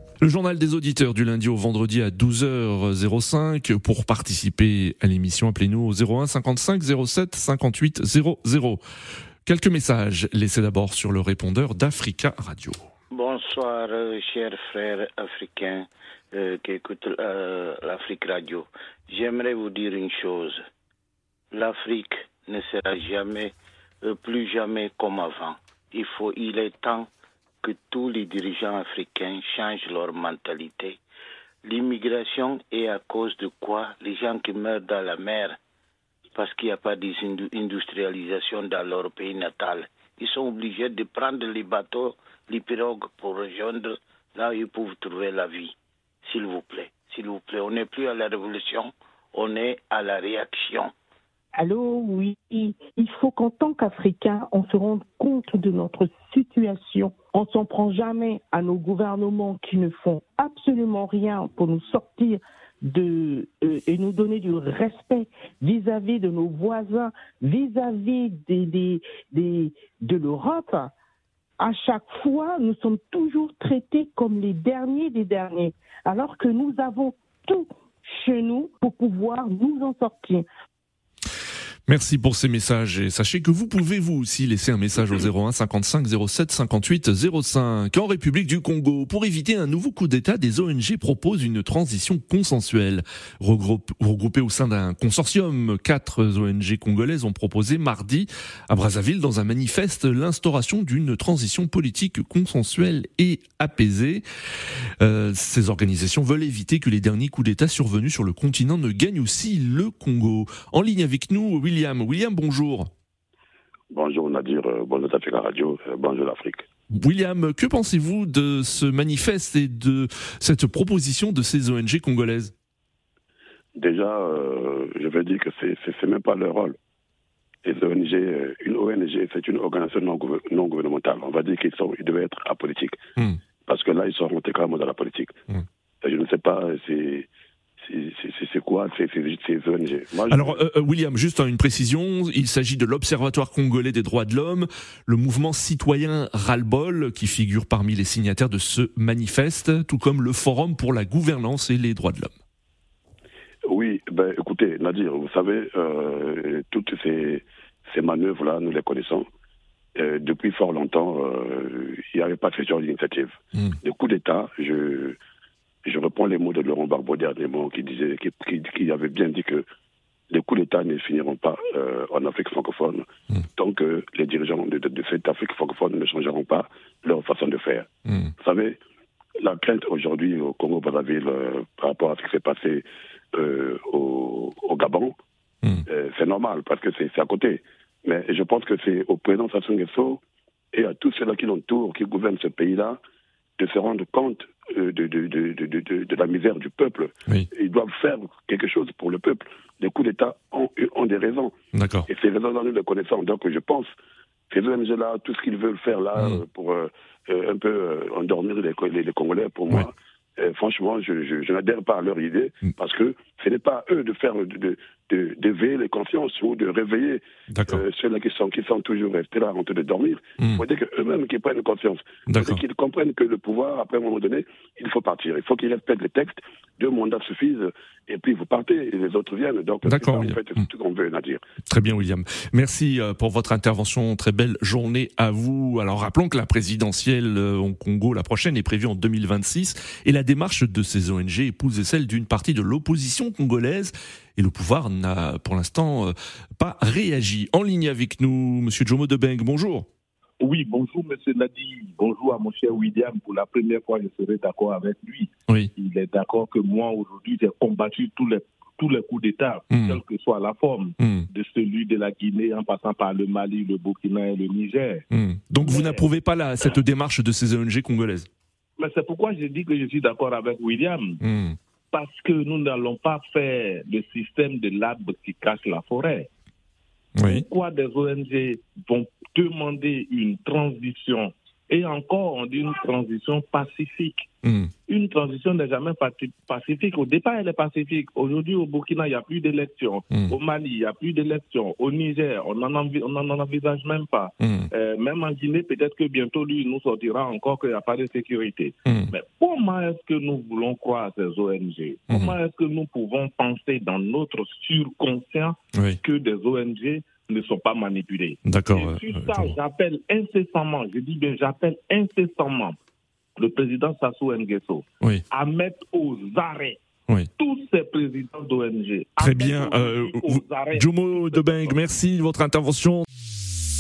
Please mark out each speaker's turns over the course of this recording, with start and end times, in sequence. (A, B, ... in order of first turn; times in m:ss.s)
0:00.2-0:08.8 A
0:09.5-0:12.8 A
0:13.1-0:20.6 B
0:21.5-0:27.1 B
0:27.6-0:31.0 B
0:31.6-0:35.6 B
0:36.4-0:50.9 B
0:51.6-1:10.9 C
1:11.6-1:20.4 C
1:21.9-1:44.3 A
1:45.0-1:52.9 A
1:53.9-1:56.7 D
1:56.9-2:02.5 A
2:03.8-2:06.8 D
2:07.6-2:13.0 D
2:13.7-2:15.3 D
2:16.0-2:17.3 D
2:17.8-2:20.6 D
2:20.3-2:32.3 A
2:33.7-2:39.3 D
2:40.0-2:45.2 D
2:45.8-2:49.6 D
2:50.3-2:57.9 D
2:58.1-2:58.3 A
2:58.4-2:58.8 D
2:59.4-3:05.2 D
3:05.9-3:10.2 D
3:10.7-3:13.0 D
3:13.6-3:21.6 D
3:21.7-3:22.1 A
3:22.1-3:23.9 D
3:24.5-3:51.4 D
3:37.5-3:37.8 A
3:42.3-3:42.6 A
3:49.9-3:50.4 A
3:51.7-4:09.9 A
4:10.4-4:25.0 E
4:19.7-4:20.0 A
4:21.0-4:21.3 A
4:25.1-4:28.3 A
4:25.6-4:26.1 E
4:28.8-4:31.2 E
4:31.2-4:31.6 A
4:31.9-4:36.3 E
4:37.2-4:37.4 A
4:37.2-4:44.3 E
4:44.4-4:44.7 A
4:44.9-5:12.8 E
4:50.1-4:50.4 A
4:54.4-4:54.7 A
4:58.9-4:59.1 A
5:02.1-5:02.4 A
5:08.4-5:09.6 A
5:13.4-5:16.8 E
5:17.4-5:21.8 E
5:19.2-5:23.1 A